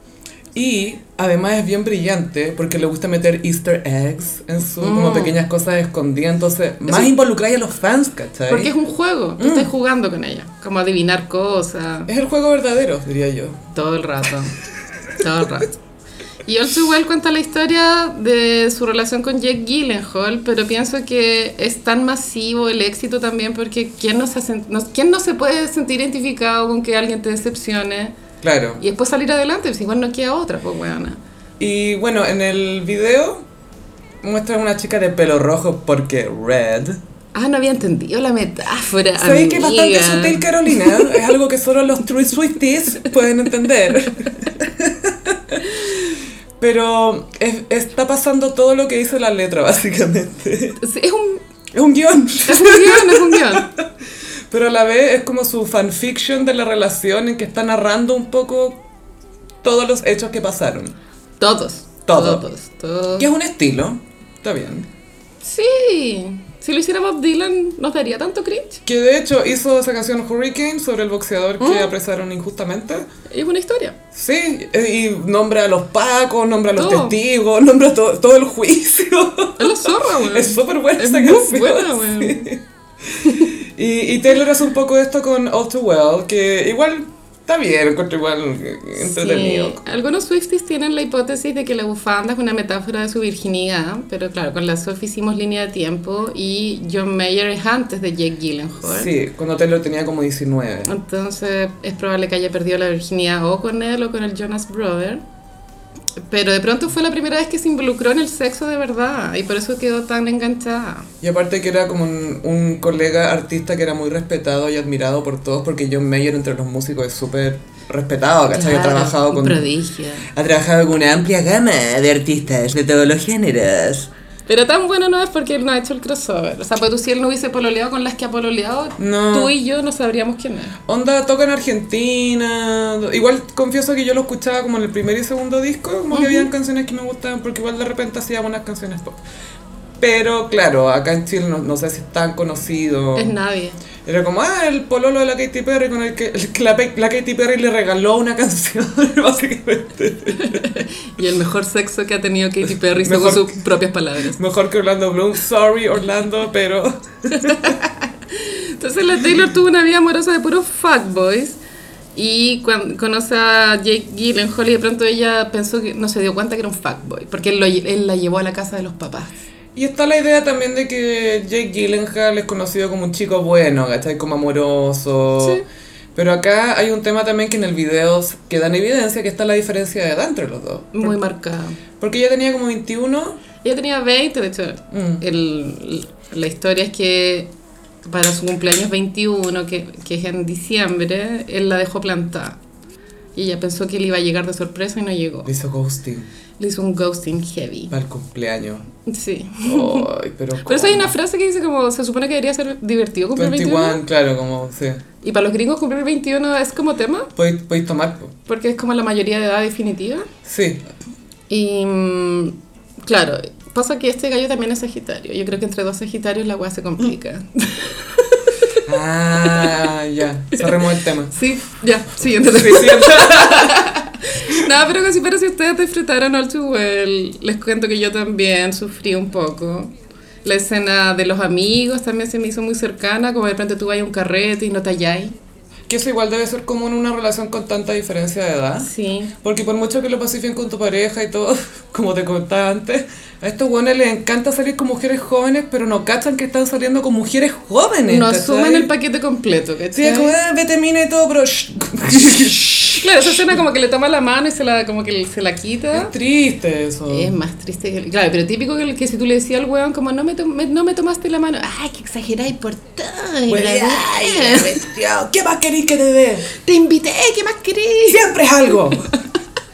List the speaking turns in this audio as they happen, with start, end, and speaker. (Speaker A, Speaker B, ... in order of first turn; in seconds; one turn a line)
Speaker A: 0.5-8.7
Speaker B: 4.8-5.3
Speaker B: 8.5-12.1
Speaker A: 9.4-9.7
Speaker A: 12.1-13.6
Speaker B: 13.7-14.6
Speaker B: 15.2-15.8
Speaker B: 16.4-28.1
Speaker A: 28.4-28.8
Speaker B: 28.8-31.2
Speaker A: 31.6-33.5
Speaker A: 34.2-37.0
Speaker B: 37.3-41.1
Speaker A: 39.2-45.9
Speaker A: 46.6-50.8
Speaker B: 50.8-51.4
Speaker A: 51.7-53.9
Speaker B: 52.5-53.7
Speaker A: 54.5-58.8
Speaker A: 59.6-60.9
Speaker B: 61.4-63.3
Speaker A: 62.1-62.4
Speaker A: 63.2-64.9
Speaker B: 65.4-68.8
Speaker A: 68.8-73.1
Speaker B: 71.6-71.9
Speaker B: 73.3-74.0
Speaker A: 74.1-89.8
Speaker B: 76.8-77.2
Speaker B: 79.6-82.5
Speaker B: 83.2-83.5
Speaker B: 89.0-99.1
Speaker A: 98.8-100.9
Speaker B: 100.8-105.2
Speaker B: 106.3-111.1
Speaker A: 111.2-119.7
Speaker B: 118.5-120.3
Speaker A: 120.3-124.1
Speaker B: 124.5-130.8
Speaker A: 129.0-129.5
Speaker A: 130.9-139.2
Speaker B: 136.1-136.5
Speaker A: 140.0-143.3
Speaker B: 143.2-143.8
Speaker A: 144.0-150.8
Speaker B: 150.3-154.4
Speaker A: 153.0-153.6
Speaker A: 154.2-157.8
Speaker B: 157.3-161.6
Speaker B: 162.1-169.4
Speaker A: 169.7-175.6
Speaker A: 176.1-181.1
Speaker B: 180.9-181.8
Speaker A: 182.0-183.4
Speaker B: 183.6-187.5
Speaker A: 184.9-185.2
Speaker B: 188.0-192.6
Speaker B: 193.3-195.5
Speaker A: 195.4-196.3
Speaker B: 196.6-197.9
Speaker A: 197.9-198.8
Speaker B: 199.1-200.1
Speaker A: 199.6-201.1
Speaker B: 200.6-204.0
Speaker A: 203.3-205.0
Speaker B: 205.2-207.3
Speaker A: 207.3-208.3
Speaker B: 208.5-210.3
Speaker A: 210.4-210.8
Speaker B: 211.5-218.8
Speaker A: 218.8-221.3
Speaker B: 219.5-219.8
Speaker B: 221.3-229.9
Speaker A: 222.4-223.9
Speaker B: 230.4-235.3
Speaker A: 235.9-238.9
Speaker B: 238.8-239.3
Speaker A: 239.4-248.9
Speaker B: 248.1-250.3
Speaker A: 249.9-253.4
Speaker B: 253.0-256.1
Speaker A: 255.9-257.3
Speaker B: 257.1-264.9
Speaker A: 263.5-266.5
Speaker B: 266.5-269.1
Speaker A: 268.1-269.1